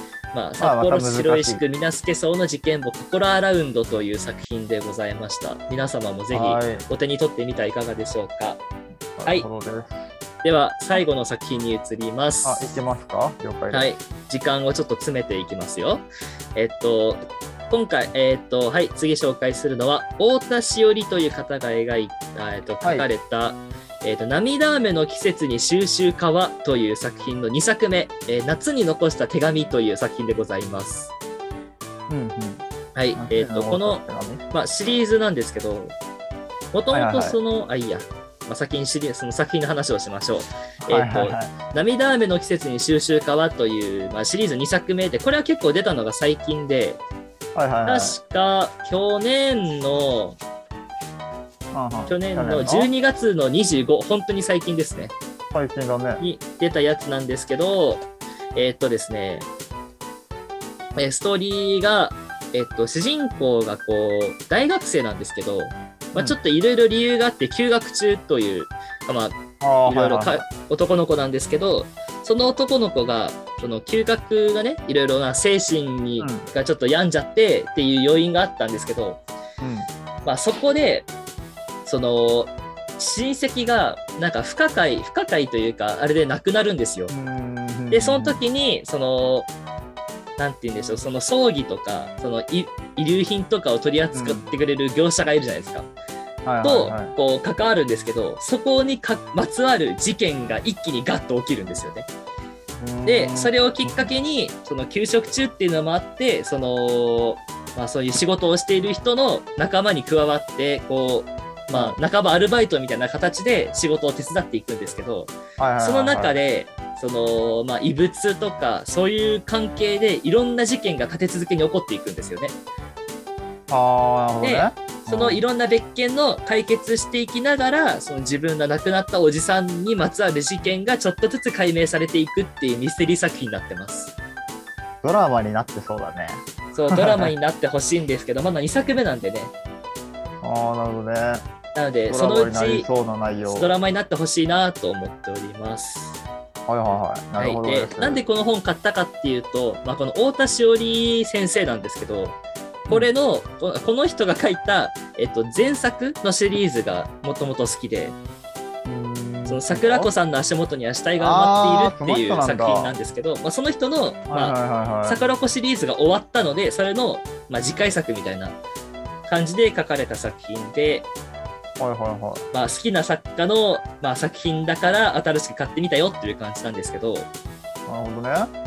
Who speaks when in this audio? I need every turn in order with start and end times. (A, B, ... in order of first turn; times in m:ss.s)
0:00.3-0:08.6 A
0:00.6-0:01.6 B
0:06.3-0:06.8 B
0:09.2-0:10.1 B
0:10.4-0:12.8 A
0:12.4-0:13.9 B
0:13.7-0:16.0 A
0:16.6-0:31.1 A
0:32.1-0:32.6 B
0:32.9-0:35.9 A
0:33.2-0:34.4 B
0:36.7-0:47.0 A
0:36.9-0:37.4 B
0:40.8-0:41.5 B
0:47.5-0:48.2 B
0:47.8-0:50.4 A
0:51.7-0:52.9 B
0:52.1-0:55.1 A
0:55.5-0:56.2 B
0:56.2-0:59.5 A
1:00.9-1:19.2 A
1:09.6-1:10.5 B
1:16.2-1:16.5 B
1:19.6-1:19.9 B
1:20.2-1:21.1 A
1:21.8-1:27.1 A
1:27.1-1:28.4 B
1:27.9-1:29.5 A
1:30.4-1:35.9 A
1:34.1-1:34.5 B
1:36.4-1:37.1 B
1:36.6-1:42.1 A
1:42.8-1:44.1 B
1:43.0-2:02.5 A
1:55.6-1:56.4 B
2:03.7-2:05.4 B
2:04.4-2:14.1 A
2:15.0-2:17.3 B
2:16.7-2:19.5 A
2:20.4-2:21.4 B
2:21.7-2:22.9 A
2:22.1-2:23.7 B
2:23.4-2:26.2 A
2:26.7-2:28.2 B
2:27.4-2:38.2 A
2:38.8-2:40.1 B
2:39.5-2:48.6 A
2:41.2-2:42.9 B
2:44.3-2:45.2 B
2:49.2-2:51.1 A
2:51.8-2:52.5 B
2:52.5-2:57.3 A
2:57.9-2:58.5 B